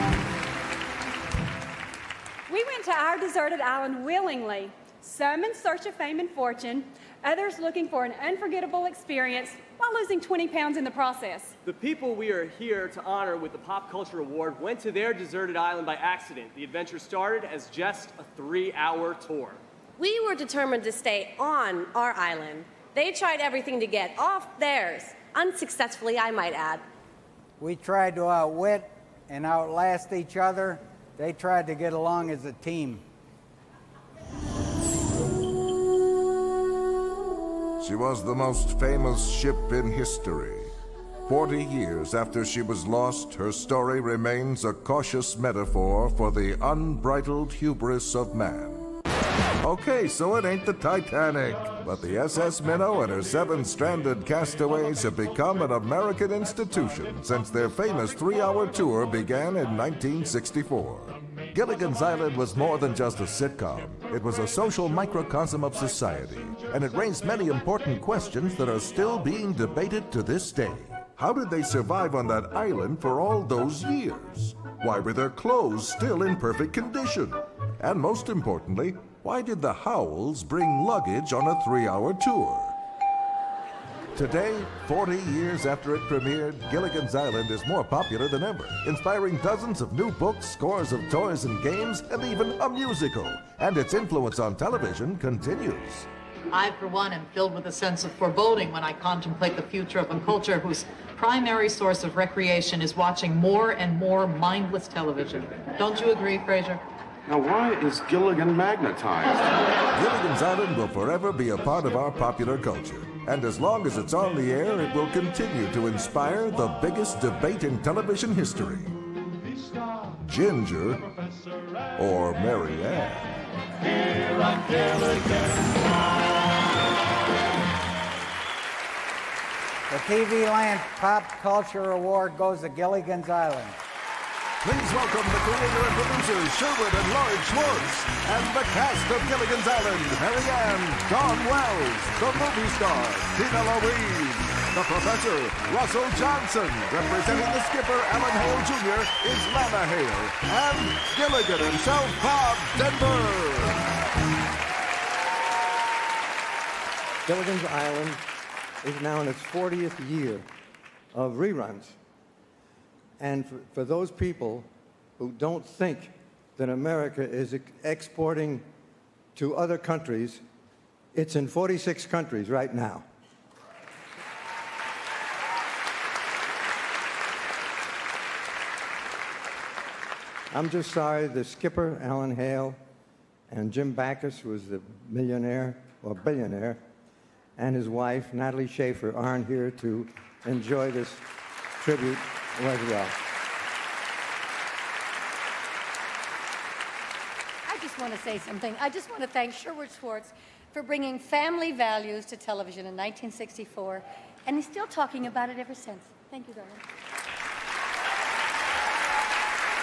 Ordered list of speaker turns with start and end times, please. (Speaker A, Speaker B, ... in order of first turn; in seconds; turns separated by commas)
Speaker A: 2.5-11.6, Speaker B: 11.6-19.6, Speaker C: 20.0-26.9, Speaker D: 27.6-33.0, Speaker E: 37.8-40.7, Speaker E: 41.2-48.8, Speaker E: 49.6-82.8, Speaker E: 84.1-96.1, Speaker F: 96.5-106.8, Speaker G: 107.3-109.4, Speaker E: 109.9-119.0, Speaker E: 120.2-121.1, Speaker E: 122.0-123.3, Speaker D: 129.9-133.8, Speaker E: 134.6-153.8, Speaker H: 157.3-158.2, Speaker H: 158.8-160.5, Speaker H: 161.1-162.0, Speaker H: 163.2-164.7, Speaker H: 165.2-168.7, Speaker H: 169.4-170.4, Speaker H: 171.1-173.1, Speaker H: 180.5-182.8, Speaker H: 183.5-186.8, Speaker H: 187.6-191.2, Speaker H: 191.8-193.2, Speaker I: 197.7-206.8